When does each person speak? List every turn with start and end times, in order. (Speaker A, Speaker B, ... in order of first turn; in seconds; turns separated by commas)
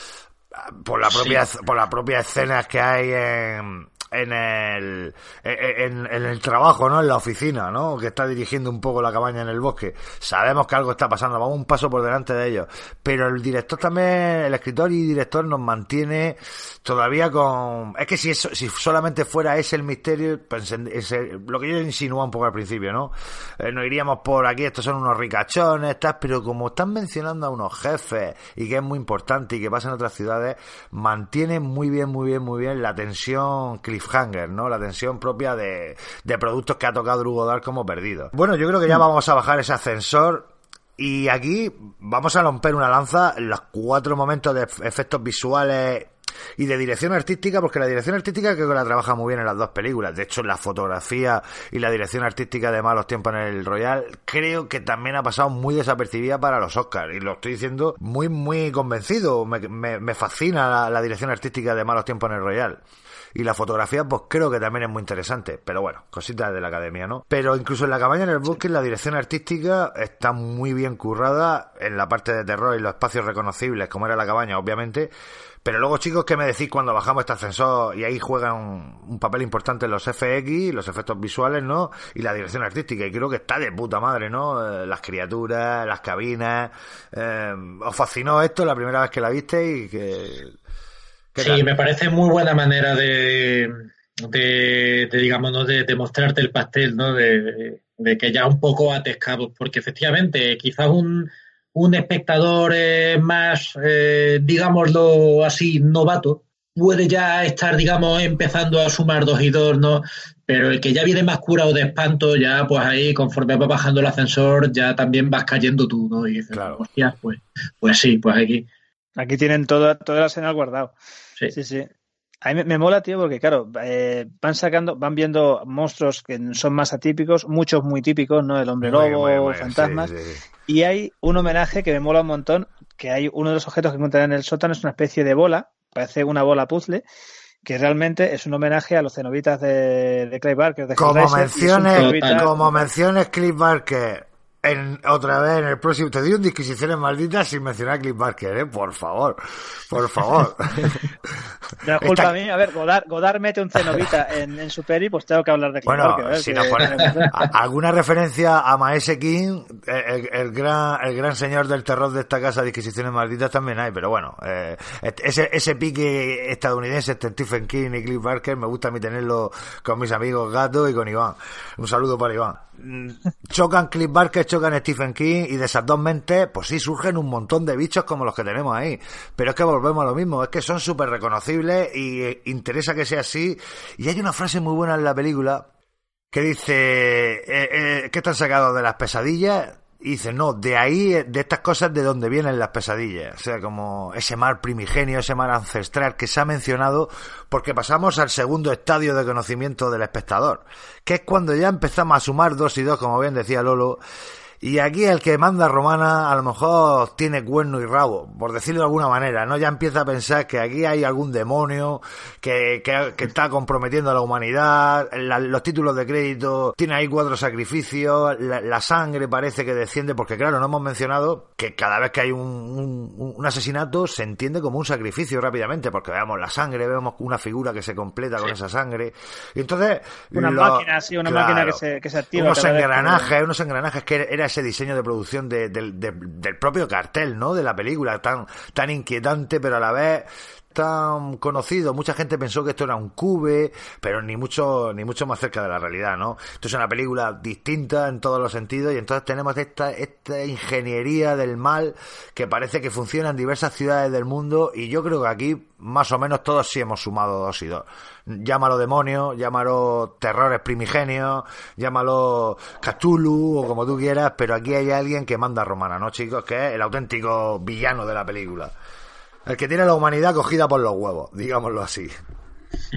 Speaker A: 0.7-62.8, Speaker B: 1.1-1.4, Speaker A: 63.3-75.1, Speaker A: 75.6-90.5, Speaker A: 91.3-91.6, Speaker B: 91.4-118.7, Speaker A: 116.5-116.8, Speaker C: 119.2-120.9, Speaker C: 121.5-121.9, Speaker C: 122.4-130.1, Speaker A: 128.8-130.4, Speaker C: 130.7-137.0, Speaker C: 137.6-142.6, Speaker A: 141.0-151.0, Speaker B: 141.9-142.5, Speaker C: 151.8-157.3, Speaker A: 152.0-152.3, Speaker A: 155.9-185.7, Speaker A: 186.3-204.0, Speaker A: 204.6-231.8, Speaker C: 230.3-233.3, Speaker A: 232.3-268.7, Speaker A: 269.4-272.1